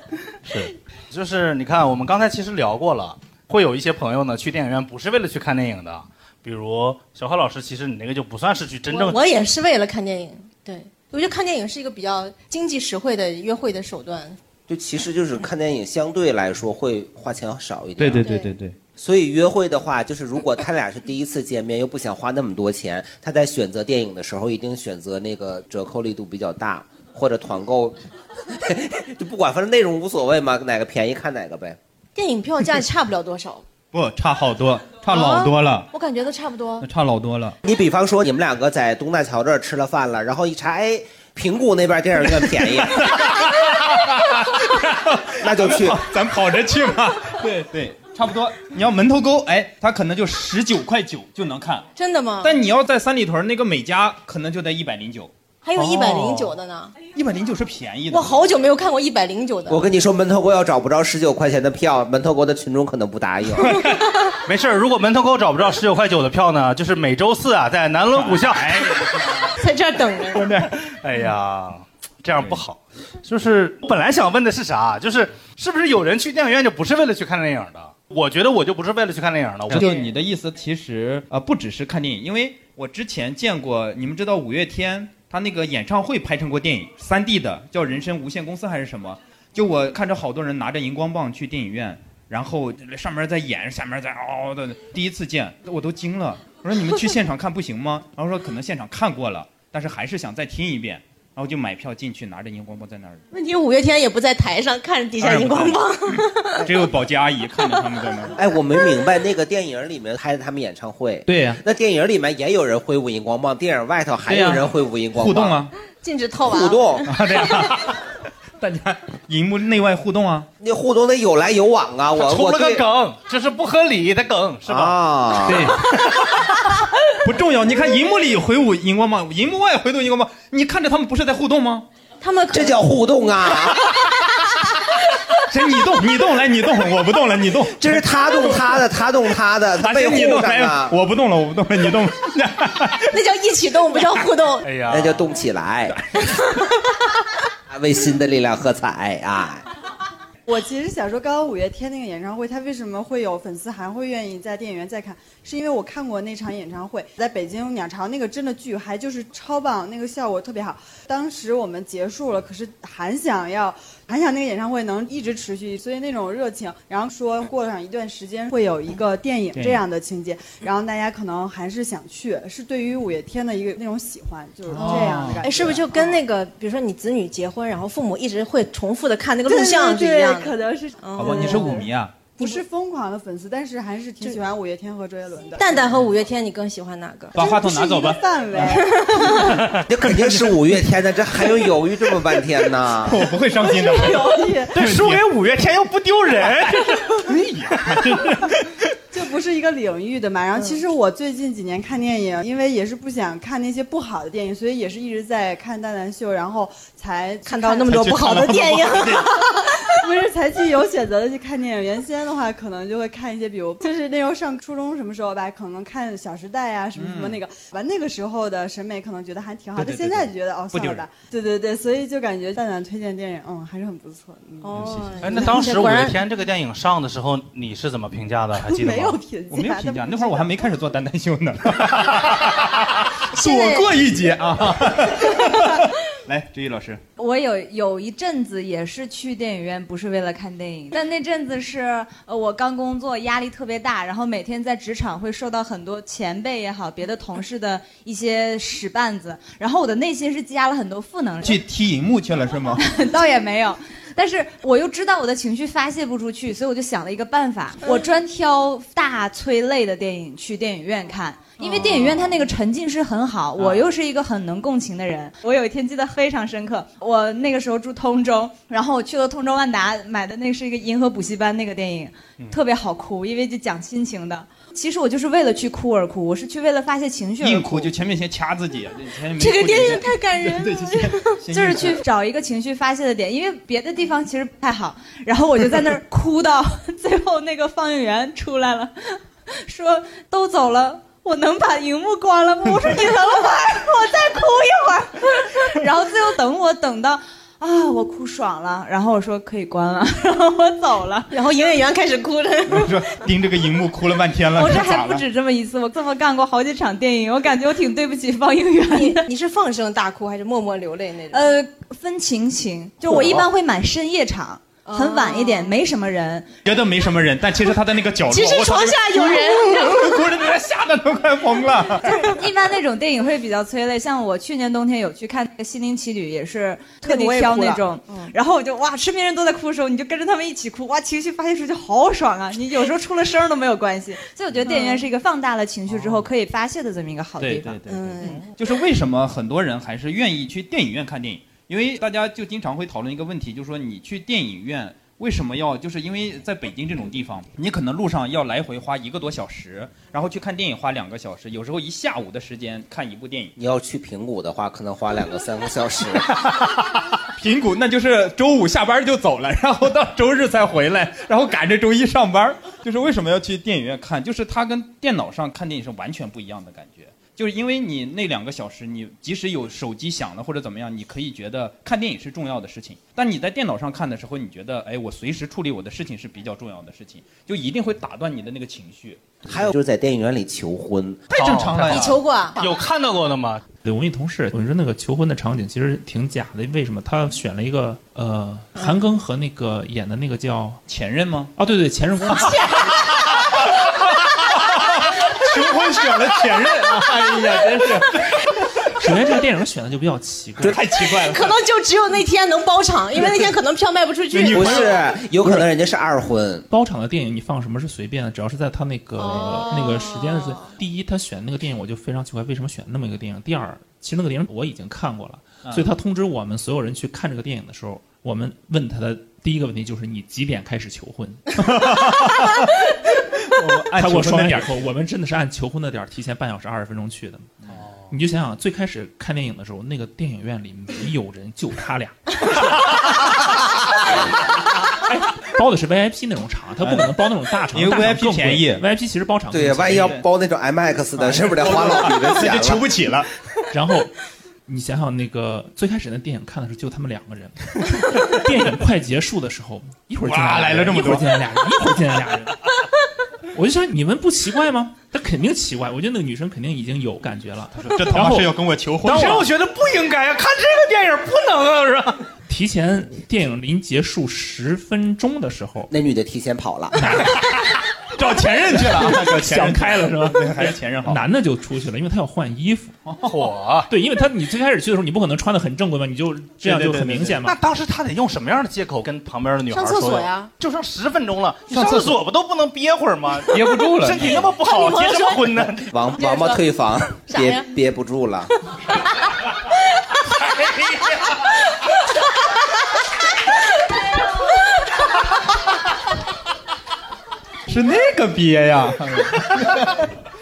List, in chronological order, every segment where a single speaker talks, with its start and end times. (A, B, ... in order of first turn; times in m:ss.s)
0:00.4-0:09.2 A
0:08.9-0:14.4 B
0:14.7-0:18.3 C
0:18.0-0:18.8 D
0:18.2-0:18.5 B
0:19.0-0:28.0 C
0:28.5-0:31.8 C
0:32.1-0:33.6 B
0:33.9-0:35.9 D
0:35.1-0:36.8 B
0:36.8-0:37.6 D
0:37.6-0:43.2 C
0:42.3-0:51.9 D
0:45.4-0:46.0 C
0:52.0-0:52.6 B
0:52.4-0:55.3 D
0:55.6-0:57.0 B
0:56.0-0:56.4 A
0:57.1-0:58.5 D
0:58.1-0:59.8 B
0:59.7-1:03.8 C
1:04.0-1:04.3 B
1:04.4-1:09.4 A
1:08.1-1:09.5 D
1:09.5-1:10.6 B
1:10.3-1:10.7 D
1:10.8-1:19.9 A
1:12.4-1:12.6 D
1:19.7-1:43.2 D
1:19.7-1:20.0 B
1:43.3-1:46.7 B
1:45.2-1:48.4 D
1:48.3-1:55.6 C
1:51.3-1:51.6 D
1:54.3-1:55.7 D
1:56.0-1:57.1 B
1:56.4-1:57.1 C
1:57.1-1:58.0 D
1:58.6-2:00.5 D
2:00.6-2:02.8 C
2:02.1-2:05.0 A
2:04.6-2:05.8 C
2:05.4-2:06.0 D
2:07.2-2:11.9 D
2:12.2-2:12.8 B
2:12.5-2:13.8 C
2:15.5-2:18.7 D
2:17.8-2:21.0 C
2:19.8-2:23.1 D
2:23.1-2:24.7 B
2:24.6-2:25.3 A
2:24.9-2:26.0 C
2:27.7-2:29.6 C
2:30.5-2:56.2 E
2:49.5-2:49.8 D
2:54.7-2:55.7 D
2:54.8-3:01.8 B
2:59.4-3:05.9 E
3:01.2-3:02.2 D
3:05.6-3:07.5 B
3:07.3-3:09.4 E
3:07.3-3:10.8 D
3:08.7-3:09.6 B
3:09.8-3:13.2 C
3:13.0-3:15.2 D
3:13.5-3:14.8 E
3:14.7-3:17.2 A
3:17.2-3:18.6 D
3:19.1-3:29.2 E
3:20.6-3:20.8 B
3:27.4-3:29.6 B
3:27.9-3:29.3 D
3:29.9-3:45.7 E
3:36.9-3:37.4 D
3:39.8-3:41.0 D
3:44.6-3:46.2 B
3:44.8-3:45.0 D
3:45.2-3:49.2 A
3:48.5-3:50.6 E
3:49.5-3:57.0 D
3:53.3-3:53.9 B
3:57.2-4:11.6 F
4:11.4-4:12.8 D
4:12.8-4:37.9 F
4:21.6-4:22.0 B
4:37.4-4:42.0 D
4:39.4-4:41.4 B
4:41.5-5:01.3 F
5:01.3-5:03.0 B
5:02.7-5:05.2 D
5:04.5-5:09.3 F
5:08.9-5:11.5 B
5:11.3-5:16.5 F
5:13.1-5:13.4 D
5:14.8-5:15.8 B
5:16.6-5:22.2 D
5:18.3-5:20.3 B
5:22.0-5:38.2 F
5:27.0-5:28.3 B
5:34.6-5:35.1 B
5:37.4-5:53.5 D
5:37.8-5:38.4 B
5:53.6-5:56.3 C
5:57.4-6:19.7 D
6:19.4-6:21.2 C
6:21.3-6:22.2 D
6:21.3-6:23.6 A
6:21.8-6:22.7 B
6:23.8-6:30.8 G
6:30.9-6:31.5 D
6:31.6-6:32.7 G
6:35.2-6:38.9 D
6:39.0-6:40.8 G
6:40.6-6:41.6 D
6:41.0-6:45.0 B
6:44.3-6:45.7 D
6:44.5-6:46.7 C
6:46.7-7:01.4 G
6:49.2-6:50.7 B
7:01.6-7:02.7 D
7:03.4-7:04.8 D
7:03.9-7:07.5 G
7:07.7-7:08.1 A
7:08.1-7:12.7 G
7:15.1-7:20.2 G
7:16.8-7:17.1 D
7:17.7-7:18.8 D
7:19.5-7:22.8 C
7:19.8-7:20.2 D
7:21.2-7:23.3 D
7:23.7-7:24.1 G
7:24.7-7:27.6 G
7:28.1-7:32.6 G
7:30.2-7:31.4 D
7:33.5-7:38.5 G
7:37.8-7:39.5 D
7:39.0-7:42.2 A
7:42.5-7:45.9 G
7:45.9-7:47.0 C
7:47.0-7:47.6 G
7:48.2-7:51.2 D
7:48.8-7:53.0 G
7:53.0-7:53.5 D
7:53.2-7:53.9 A
7:53.9-7:57.6 G
7:56.7-7:57.3 D
7:56.7-8:05.9 A
7:59.7-8:00.5 B
8:01.7-8:02.2 D
8:03.5-8:04.4 D
8:04.2-8:06.6 B
8:05.9-8:08.5 C
8:07.3-8:07.7 B
8:17.7-8:20.0 D